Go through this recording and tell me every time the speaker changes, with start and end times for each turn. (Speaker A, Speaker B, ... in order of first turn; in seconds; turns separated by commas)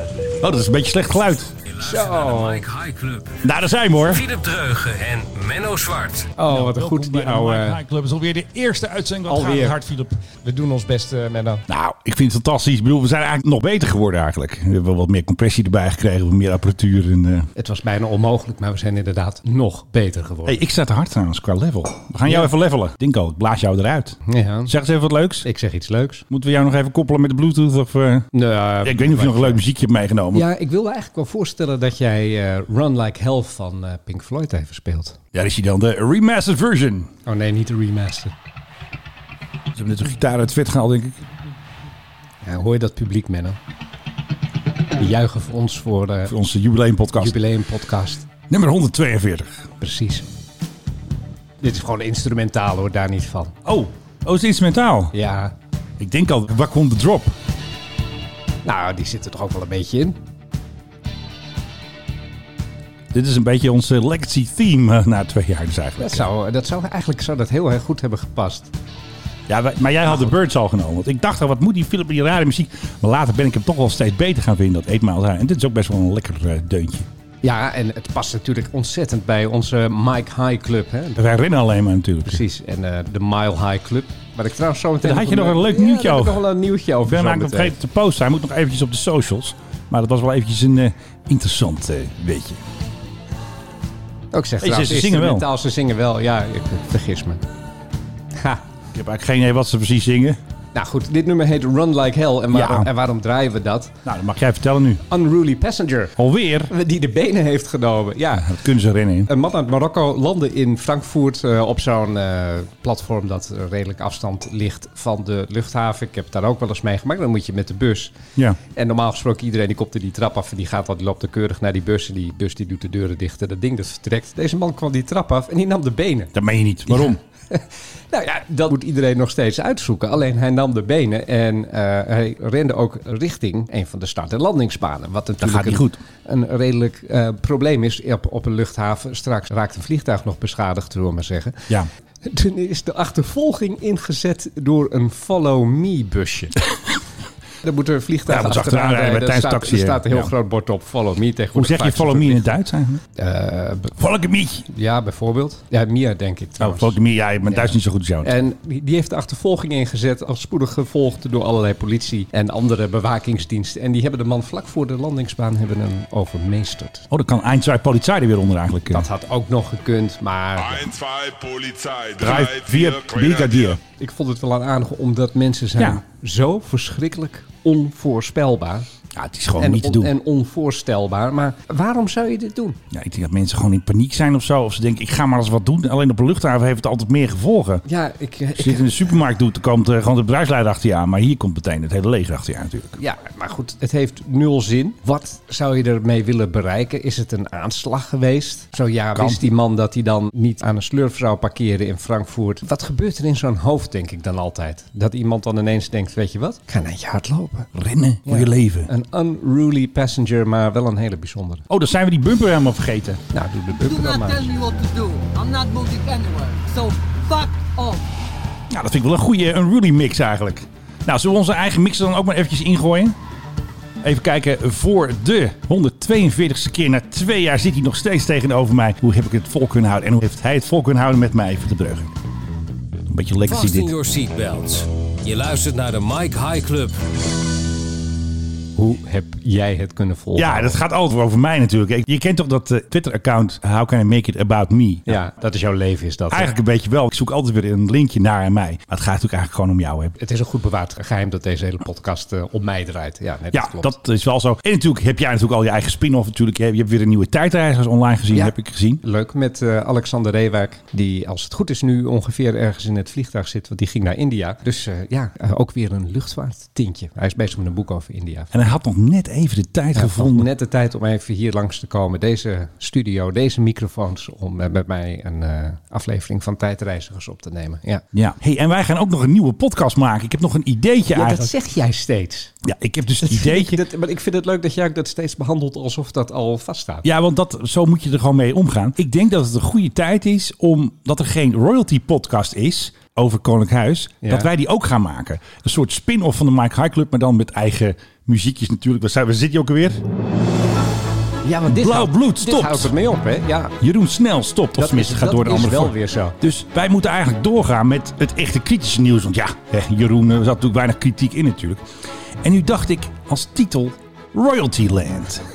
Speaker A: 0.4-1.5, Speaker B: 1.7-6.3, Speaker C: 1.8-2.6, Speaker A: 3.4-4.2, Speaker C: 6.4-7.8, Speaker A: 6.5-10.2, Speaker C: 9.3-9.8, Speaker C: 10.4-11.6, Speaker A: 11.7-17.5, Speaker C: 17.6-20.6, Speaker A: 20.4-25.4, Speaker C: 22.2-22.5, Speaker C: 24.2-24.7, Speaker C: 25.4-26.2, Speaker A: 26.3-28.3, Speaker C: 28.3-29.6, Speaker A: 28.8-30.4, Speaker C: 30.3-35.2, Speaker A: 35.3-37.1, Speaker C: 37.2-38.3, Speaker A: 39.7-41.2, Speaker C: 42.4-43.6, Speaker C: 45.0-46.3, Speaker A: 46.3-47.4, Speaker C: 47.1-48.2, Speaker A: 48.5-49.7, Speaker C: 49.8-50.2, Speaker C: 51.6-53.6, Speaker A: 53.6-55.1, Speaker C: 55.1-55.5, Speaker A: 56.0-57.3, Speaker C: 58.6-60.2, Speaker A: 63.1-66.3, Speaker C: 66.0-68.7, Speaker A: 69.5-77.0, Speaker C: 77.4-81.2, Speaker A: 81.2-82.4, Speaker C: 82.2-87.8, Speaker A: 85.0-86.4, Speaker A: 87.0-92.6, Speaker C: 94.3-97.4, Speaker A: 94.6-95.5, Speaker C: 98.3-98.6, Speaker A: 98.9-100.4, Speaker C: 100.7-103.9, Speaker A: 102.5-102.9, Speaker A: 104.0-105.0, Speaker C: 105.1-106.1, Speaker A: 106.2-106.7, Speaker C: 106.7-108.5, Speaker A: 108.3-109.3, Speaker C: 109.3-118.1, Speaker C: 118.7-126.3, Speaker A: 126.3-127.2, Speaker C: 126.9-141.7, Speaker A: 135.4-136.0, Speaker C: 142.2-146.6, Speaker C: 147.6-152.6, Speaker A: 148.3-150.3, Speaker A: 151.5-153.0, Speaker C: 153.1-153.9, Speaker A: 153.9-154.7, Speaker C: 154.7-167.1, Speaker A: 156.6-158.3, Speaker A: 167.1-169.1, Speaker C: 168.9-170.9, Speaker D: 170.6-173.8, Speaker A: 172.2-173.8, Speaker C: 173.9-178.8, Speaker A: 175.8-176.0, Speaker A: 179.1-180.1, Speaker C: 179.6-182.8, Speaker A: 182.9-187.8, Speaker C: 187.8-189.1, Speaker A: 188.6-193.0, Speaker C: 193.0-207.7, Speaker A: 199.1-199.4, Speaker A: 207.7-208.9, Speaker C: 208.2-211.6, Speaker A: 211.7-213.2, Speaker C: 213.3-214.5, Speaker E: 213.8-218.0, Speaker A: 218.7-223.1, Speaker A: 224.0-232.1, Speaker A: 233.1-233.9, Speaker B: 233.4-236.9, Speaker C: 238.8-240.8, Speaker A: 240.3-245.2, Speaker C: 245.1-246.5, Speaker A: 246.3-250.1, Speaker C: 250.2-253.9, Speaker A: 253.5-259.0, Speaker C: 258.3-268.5, Speaker A: 268.5-270.5, Speaker C: 269.9-278.0, Speaker A: 278.1-281.5, Speaker C: 281.1-282.5, Speaker A: 282.6-283.8, Speaker C: 283.2-287.1, Speaker A: 287.0-300.0, Speaker C: 294.2-294.5, Speaker C: 301.4-303.7, Speaker A: 301.6-302.9, Speaker A: 303.8-311.9, Speaker C: 304.8-306.4, Speaker A: 312.4-315.4